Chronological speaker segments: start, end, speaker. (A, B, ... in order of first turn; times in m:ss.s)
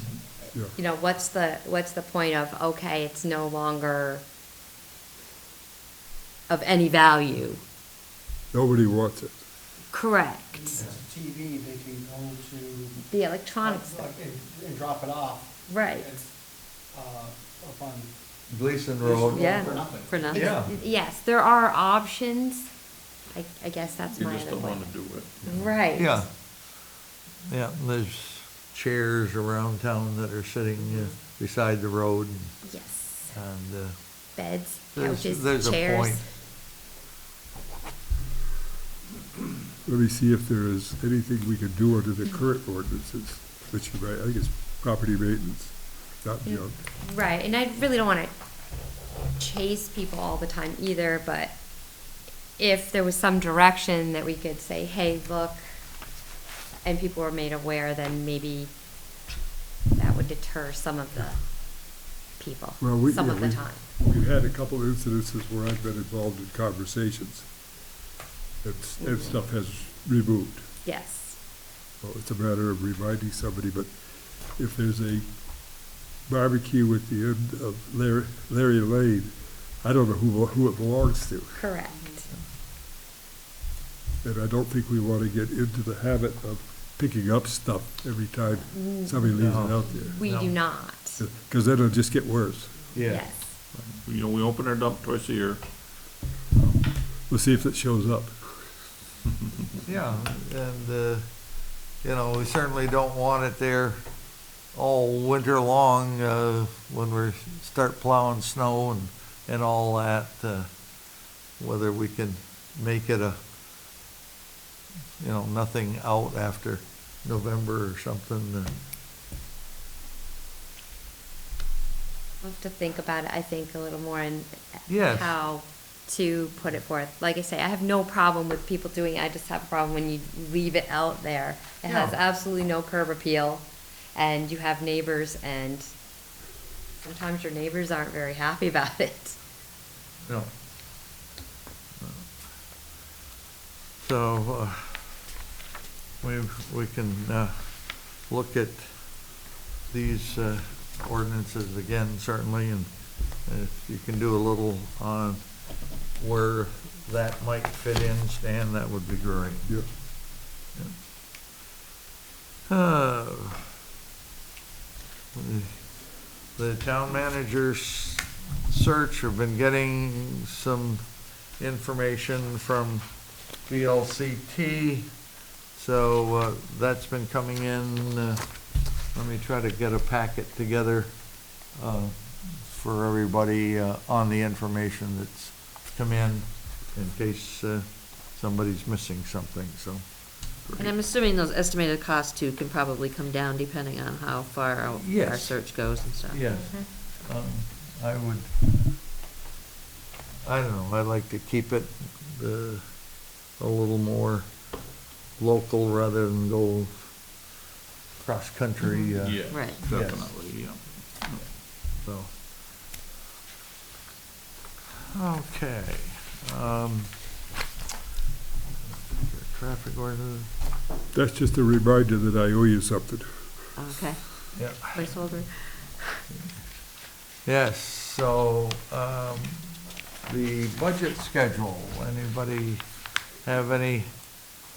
0:00.7-0:04.2 A
0:06.5-0:07.6 A
0:08.5-0:09.4 B
0:09.9-0:10.8 A
0:10.5-0:13.0 C
0:13.1-0:14.1 A
0:13.6-0:16.3 C
0:15.7-0:16.1 A
0:16.9-0:18.1 C
0:18.5-0:19.8 D
0:19.0-0:20.6 C
0:19.3-0:20.5 E
0:20.3-0:22.7 A
0:20.3-0:20.7 D
0:23.3-0:26.2 A
0:24.1-0:25.7 F
0:25.9-0:26.3 D
0:27.5-0:32.6 D
0:32.7-0:33.3 A
0:33.3-0:34.0 D
0:34.4-0:36.3 A
0:34.9-0:36.2 D
0:39.8-0:46.8 B
0:46.4-0:48.3 A
0:49.4-0:51.6 A
0:52.6-0:55.6 A
0:56.8-0:58.7 A
1:00.0-1:01.4 A
1:02.4-1:03.8 A
1:02.8-1:07.5 B
1:08.6-1:10.7 B
1:10.8-1:11.4 A
1:12.0-1:15.4 B
1:16.2-1:21.7 B
1:21.6-1:22.3 A
1:24.2-1:30.2 B
1:28.7-1:29.1 A
1:29.3-1:30.6 D
1:30.0-1:31.2 A
1:31.2-1:32.9 B
1:32.9-1:33.3 D
1:33.1-1:33.6 A
1:33.7-1:36.9 F
1:37.2-1:38.7 B
1:39.8-1:41.2 D
1:42.0-1:44.0 D
1:44.7-1:50.7 D
1:51.6-1:53.4 D
1:55.2-1:58.7 D
2:02.4-2:15.9 A
2:04.9-2:05.3 D
2:11.8-2:12.2 D
2:17.0-2:19.4 A
2:22.0-2:22.3 D
2:24.0-2:25.0 D
2:26.2-2:29.2 D
2:29.9-2:32.9 D
2:33.4-2:35.4 D
2:36.1-2:39.7 D
2:42.7-2:43.6 D
2:45.3-2:45.8 D
2:46.4-2:51.0 D
2:51.6-2:53.1 D
2:53.6-2:55.1 D
2:55.7-2:58.4 D
2:59.1-3:01.2 D
3:01.7-3:10.0 D
3:10.8-3:16.4 E
3:14.9-3:18.5 D
3:20.4-3:22.9 D
3:23.4-3:24.5 D
3:25.4-3:27.1 D
3:28.2-3:30.3 D
3:29.2-3:31.5 F
3:29.5-3:29.8 E
3:32.0-3:32.3 D
3:35.1-3:37.1 D
3:38.8-3:40.5 D
3:41.1-3:43.6 B
3:43.8-3:46.2 E
3:44.6-3:45.4 D
3:47.4-3:52.8 D
3:53.4-3:54.1 D